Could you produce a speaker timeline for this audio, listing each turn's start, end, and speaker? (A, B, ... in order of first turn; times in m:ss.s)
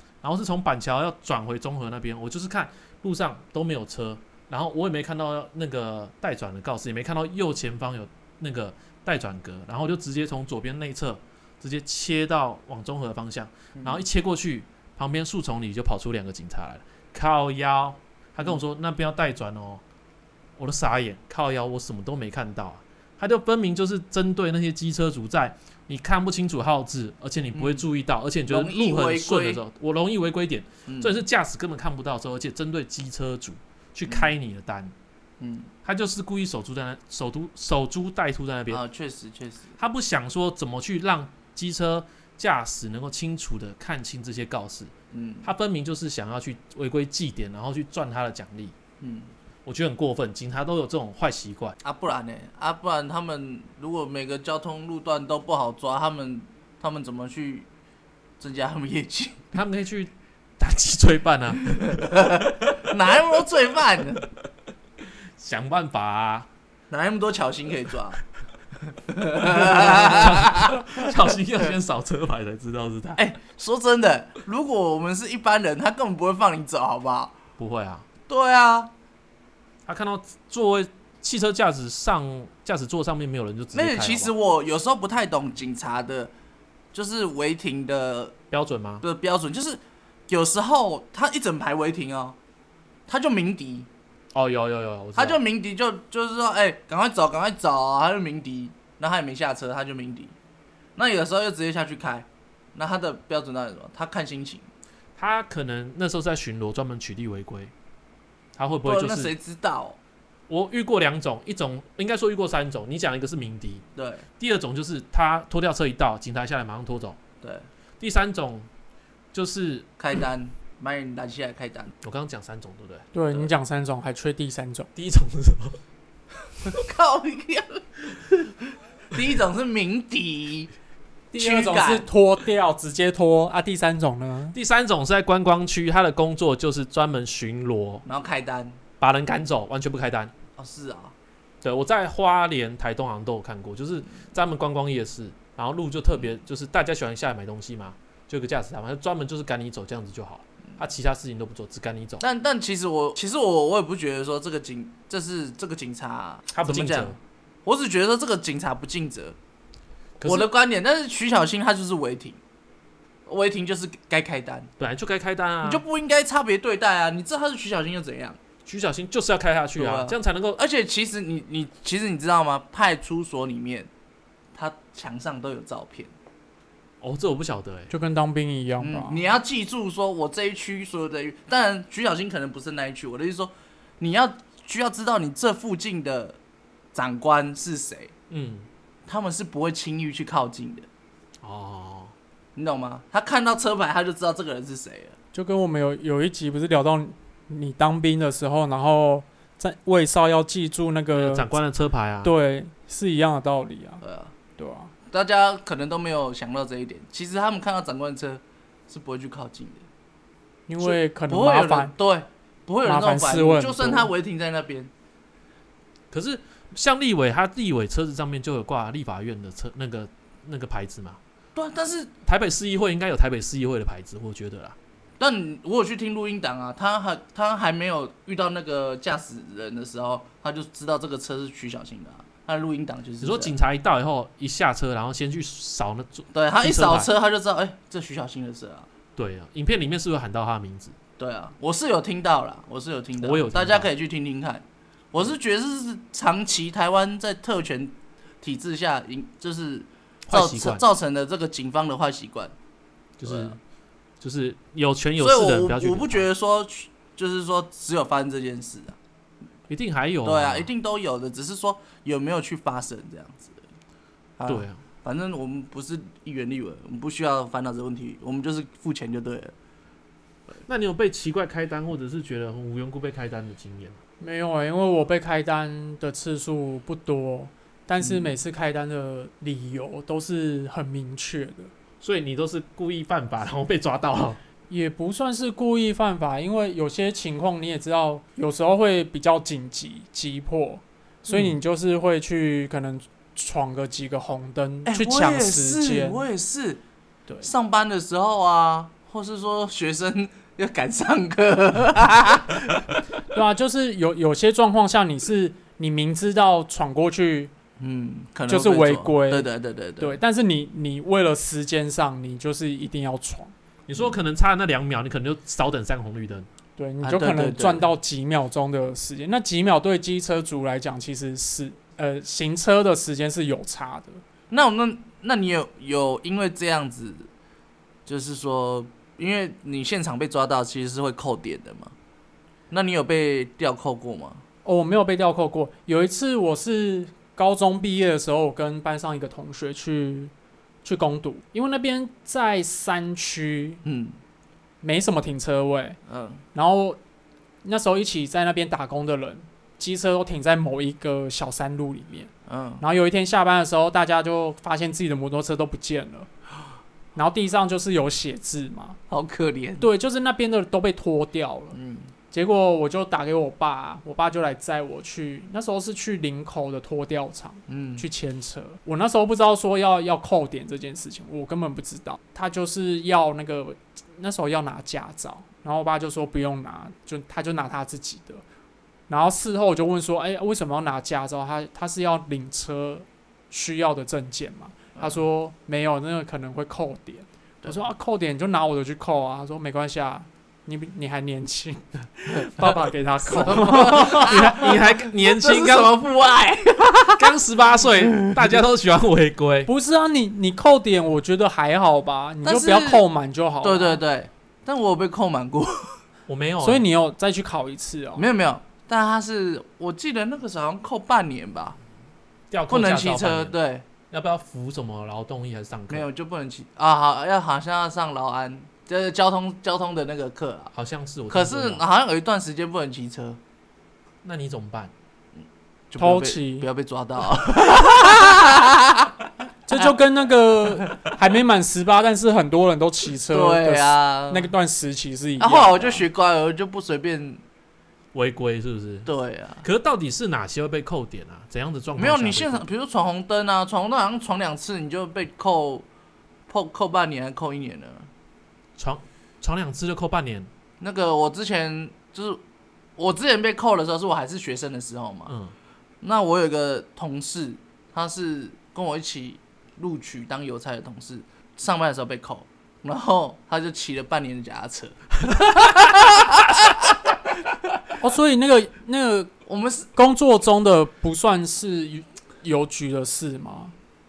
0:00.2-0:19.8 A
0:13.8-0:14.0 B
0:20.6-0:34.9 A
0:27.5-0:27.8 B
0:28.5-0:29.6 B
0:30.9-0:31.2 B
0:35.4-0:35.7 B
0:35.8-0:38.8 A
0:38.7-0:39.7 B
0:39.8-0:44.9 A
0:45.1-0:45.5 B
0:45.4-0:48.7 A
0:49.0-0:49.3 B
0:49.6-0:51.7 A
0:51.8-0:57.7 B
0:58.4-0:59.5 B
0:59.5-1:02.9 A
1:01.8-1:04.2 B
1:05.4-1:06.5 A
1:06.9-1:08.2 B
1:08.8-1:11.7 B
1:09.4-1:13.2 A
1:13.2-1:17.4 B
1:17.6-1:18.0 A
1:18.3-1:18.9 B
1:19.8-1:24.3 A
1:23.7-1:26.3 B
1:26.9-1:28.3 B
1:28.5-1:29.0 A
1:29.0-1:32.4 B
1:33.1-1:33.9 B
1:34.3-1:35.4 A
1:35.2-1:40.3 B
1:41.0-1:44.7 B
1:45.2-1:47.7 A
1:48.6-1:49.3 A
1:48.8-1:50.0 B
1:50.5-1:53.8 A
1:54.0-1:54.2 B
1:54.4-1:57.2 A
1:57.4-1:57.6 B
1:58.0-1:58.7 A
1:59.3-1:59.9 A
2:00.0-2:01.9 B
2:02.0-2:03.4 A
2:03.1-2:04.9 C
2:05.0-2:05.8 A
2:06.6-2:10.7 B
2:11.3-2:14.5 C
2:11.3-2:12.1 B
2:14.5-2:18.0 A
2:18.0-2:18.8 B
2:19.0-2:20.3 A
2:20.6-2:21.1 B
2:21.6-2:32.2 A
2:32.2-2:39.4 B
2:36.5-2:37.2 A
2:40.2-2:40.5 A
2:40.2-2:42.4 B
2:43.2-2:44.7 B
2:44.8-2:45.8 A
2:45.6-2:48.4 B
2:48.6-2:50.6 A
2:49.8-2:53.9 B
2:54.5-2:56.1 B
2:57.0-2:57.9 A
2:57.9-2:59.2 C
2:58.8-3:06.4 B
3:06.9-3:08.1 B
3:08.3-3:08.7 A
3:09.1-3:10.9 B
3:11.4-3:12.1 A
3:12.6-3:15.2 B
3:15.3-3:21.5 C
3:21.1-3:22.3 A
3:22.2-3:24.0 C
3:24.0-3:24.3 B
3:24.6-3:24.9 C
3:25.1-3:29.8 B
3:30.7-3:31.9 C
3:30.8-3:34.9 B
3:32.8-3:34.1 C
3:36.1-3:41.2 A
3:41.5-3:42.1 B
3:42.2-3:44.8 A
3:45.2-3:53.5 B
3:53.2-3:57.1 A
3:56.3-3:58.9 B
3:59.2-4:01.0 A
4:01.2-4:12.5 B
4:03.2-4:03.9 A
4:10.3-4:10.8 A
4:13.2-4:13.6 A
4:13.2-4:13.6 B
4:14.2-4:16.2 A
4:15.2-4:19.0 B
4:19.7-4:20.7 A
4:20.2-4:23.6 B
4:24.4-4:29.5 B
4:24.5-4:24.8 A
4:30.6-4:34.0 A
4:34.2-4:41.7 C
4:38.0-4:38.3 B
4:42.0-4:44.4 A
4:44.7-4:56.2 C
4:54.8-4:56.8 B
4:57.4-5:03.0 B
5:03.3-5:07.5 C
5:07.8-5:10.2 B
5:08.5-5:13.5 C
5:13.9-5:16.5 A
5:16.8-5:24.2 C
5:17.0-5:17.9 B
5:24.5-5:27.3 B
5:28.0-5:31.9 B
5:32.7-5:34.4 B
5:34.6-5:40.3 C
5:40.8-5:43.8 C
5:43.8-5:44.2 B
5:44.8-5:46.0 C
5:46.1-5:46.4 B
5:46.5-5:47.0 C
5:47.6-5:56.3 C
5:52.5-5:52.8 B
5:57.1-5:59.0 C
5:59.1-5:59.9 B
5:59.8-6:01.8 C
6:01.7-6:02.1 B
6:02.3-6:18.4 C
6:07.7-6:08.0 B
6:19.1-6:34.8 C
6:24.9-6:25.2 B
6:33.3-6:37.3 B
6:33.5-6:35.9 A
6:37.0-6:39.7 A
6:39.7-6:44.0 C
6:42.4-6:43.0 B
6:43.6-6:46.0 B
6:46.3-6:46.9 A
6:46.6-6:48.3 C
6:48.2-6:51.8 B
6:52.5-6:53.5 A
6:52.7-6:53.8 B
6:54.1-6:56.0 A
6:55.9-7:00.7 B
7:00.7-7:01.8 A
7:01.3-7:03.4 B
7:04.2-7:04.9 A
7:05.9-7:09.9 B
7:06.0-7:06.7 C
7:09.7-7:16.0 C
7:10.8-7:11.1 B
7:13.3-7:14.5 B
7:15.4-7:17.4 B
7:18.1-7:19.1 A
7:19.0-7:19.6 B
7:19.6-7:22.6 A
7:22.0-7:25.8 B
7:26.5-7:28.1 B
7:28.8-7:30.5 A
7:30.8-7:32.4 B
7:33.0-7:35.3 B
7:35.3-7:35.5 A
7:36.0-7:47.8 B
7:48.0-7:49.3 C
7:49.5-7:49.9 B
7:49.9-7:53.7 C